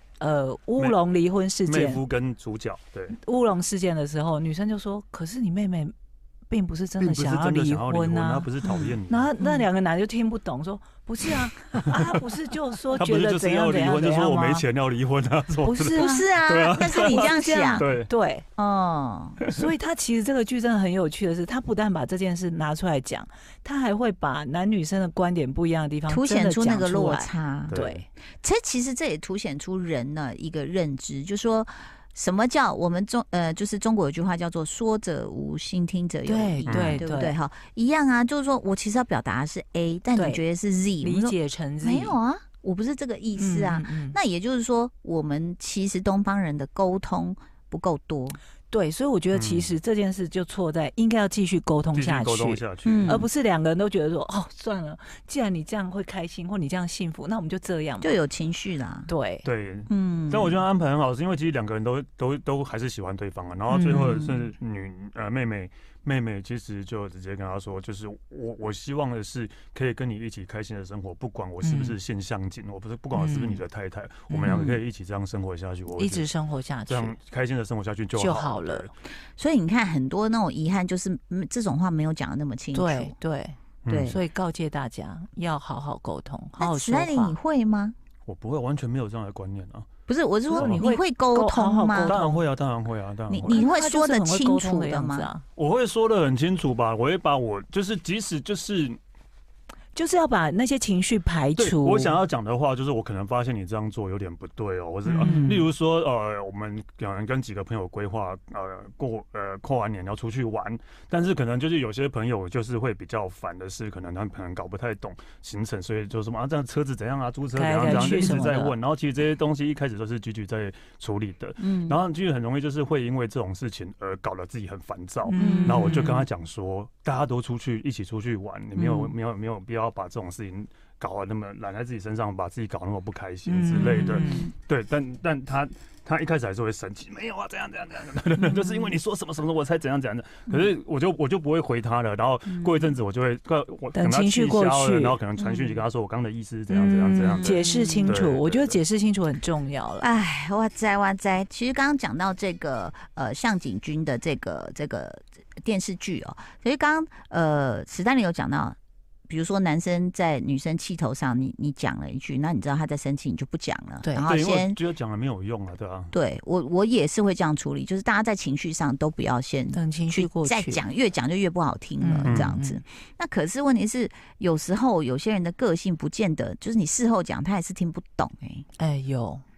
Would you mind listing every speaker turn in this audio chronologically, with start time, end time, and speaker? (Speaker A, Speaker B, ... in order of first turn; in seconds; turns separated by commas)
Speaker A: 0.2-2.0, Speaker B: 1.7-3.2, Speaker A: 3.1-5.9, Speaker A: 6.5-8.5, Speaker B: 7.0-9.3, Speaker C: 8.6-9.6, Speaker A: 9.1-14.6, Speaker B: 13.0-18.1, Speaker A: 15.6-16.2, Speaker C: 15.9-17.9, Speaker A: 16.8-18.5, Speaker C: 18.6-19.4, Speaker A: 19.5-28.1, Speaker C: 26.1-27.8, Speaker B: 27.7-28.0, Speaker C: 28.4-48.4, Speaker A: 36.3-37.4, Speaker B: 36.7-37.0, Speaker A: 40.1-40.4, Speaker A: 41.0-42.1, Speaker A: 43.4-44.2, Speaker A: 48.7-58.2, Speaker B: 49.3-49.8, Speaker B: 51.9-53.2, Speaker C: 52.8-53.3, Speaker C: 58.0-59.1, Speaker A: 59.1-59.5, Speaker B: 59.4-76.3, Speaker C: 59.9-60.6, Speaker C: 63.7-64.5, Speaker A: 63.7-64.2, Speaker A: 71.6-72.0, Speaker A: 73.2-73.6, Speaker C: 74.3-74.8, Speaker A: 76.0-77.2, Speaker B: 76.9-78.9, Speaker A: 78.2-78.9, Speaker C: 79.4-83.2, Speaker A: 82.7-87.4, Speaker B: 83.8-84.2, Speaker C: 83.9-84.2, Speaker C: 86.6-88.0, Speaker B: 88.3-89.9, Speaker C: 90.1-92.2, Speaker A: 90.5-92.4, Speaker B: 92.1-93.7, Speaker C: 93.3-95.3, Speaker A: 93.5-95.4, Speaker B: 95.6-99.0, Speaker A: 100.0-102.2, Speaker B: 101.6-148.8, Speaker A: 105.1-105.6, Speaker C: 105.2-105.6, Speaker A: 117.5-118.8, Speaker C: 121.6-122.0, Speaker A: 125.2-126.3, Speaker C: 125.4-126.2, Speaker C: 128.8-129.1, Speaker A: 133.5-134.5, Speaker C: 133.7-134.5, Speaker C: 138.4-139.0, Speaker C: 142.5-142.9, Speaker A: 143.9-145.2, Speaker C: 145.4-145.8, Speaker A: 146.7-150.1, Speaker C: 146.8-148.2, Speaker C: 150.0-158.8, Speaker C: 159.3-164.8, Speaker B: 164.2-166.1, Speaker C: 166.1-178.7, Speaker A: 169.7-170.8, Speaker A: 172.0-172.8, Speaker B: 172.2-172.6, Speaker A: 178.8-179.4